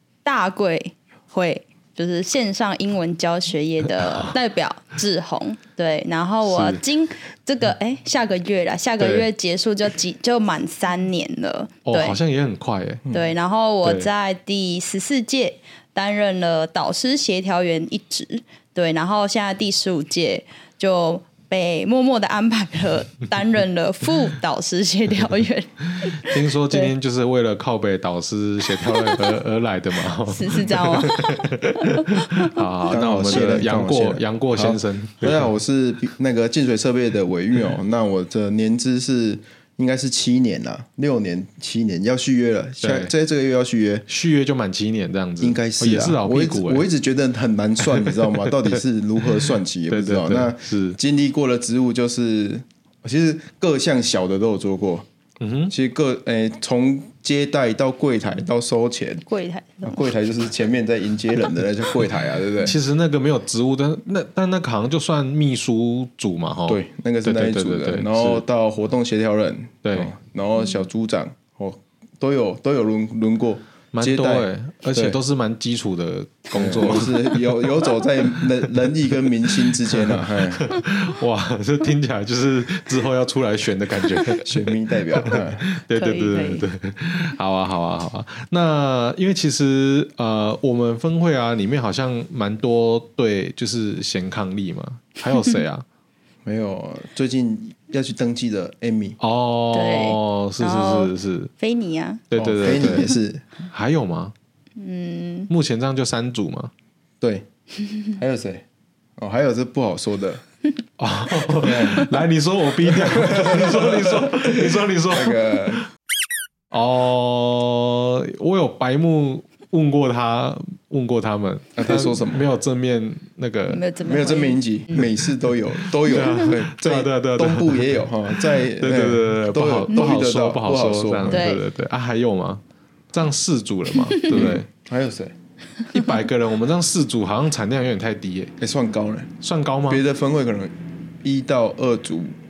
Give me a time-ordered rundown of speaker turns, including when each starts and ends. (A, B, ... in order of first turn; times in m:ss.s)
0:00.2-0:12.2 A
0:06.4-0:06.8 B
0:09.0-0:09.3 B
0:11.8-0:13.0 B
0:13.1-0:26.9 A
0:13.8-0:14.1 B
0:26.0-0:35.5 B
0:30.3-0:32.6 A
0:32.9-0:44.1 C
0:42.8-0:43.1 B
0:44.1-0:46.9 B
0:45.4-0:55.1 C
0:47.9-0:48.8 B
0:49.9-0:51.0 B
0:55.4-0:55.7 B
0:55.7-0:59.2 C
0:59.3-1:00.0 A
0:59.8-1:02.8 C
1:02.6-1:08.4 B
1:06.7-1:15.2 C
1:09.8-1:10.1 B
1:13.9-1:17.4 B
1:16.5-1:20.7 C
1:19.9-1:24.6 B
1:24.4-1:25.6 C
1:25.1-1:35.8 B
1:25.9-1:26.7 A
1:36.4-1:39.2 C
1:39.2-1:41.5 B
1:39.7-1:42.2 A
1:42.3-1:43.1 B
1:42.3-1:43.4 C
1:43.7-1:44.3 B
1:44.8-1:45.5 A
1:45.5-1:46.7 B
1:47.2-1:47.5 C
1:48.2-1:48.6 C
1:49.2-1:50.4 C
1:51.0-1:55.8 B
1:51.6-1:52.1 C
1:52.9-1:55.8 C
1:56.7-2:03.8 B
2:01.8-2:02.5 C
2:03.7-2:05.0 A
2:04.0-2:11.5 C
2:05.9-2:14.7 B
2:11.3-2:11.6 A
2:14.3-2:15.3 C
2:15.9-2:18.6 B
2:18.6-2:19.3 C
2:19.4-2:20.0 B
2:19.9-2:22.4 C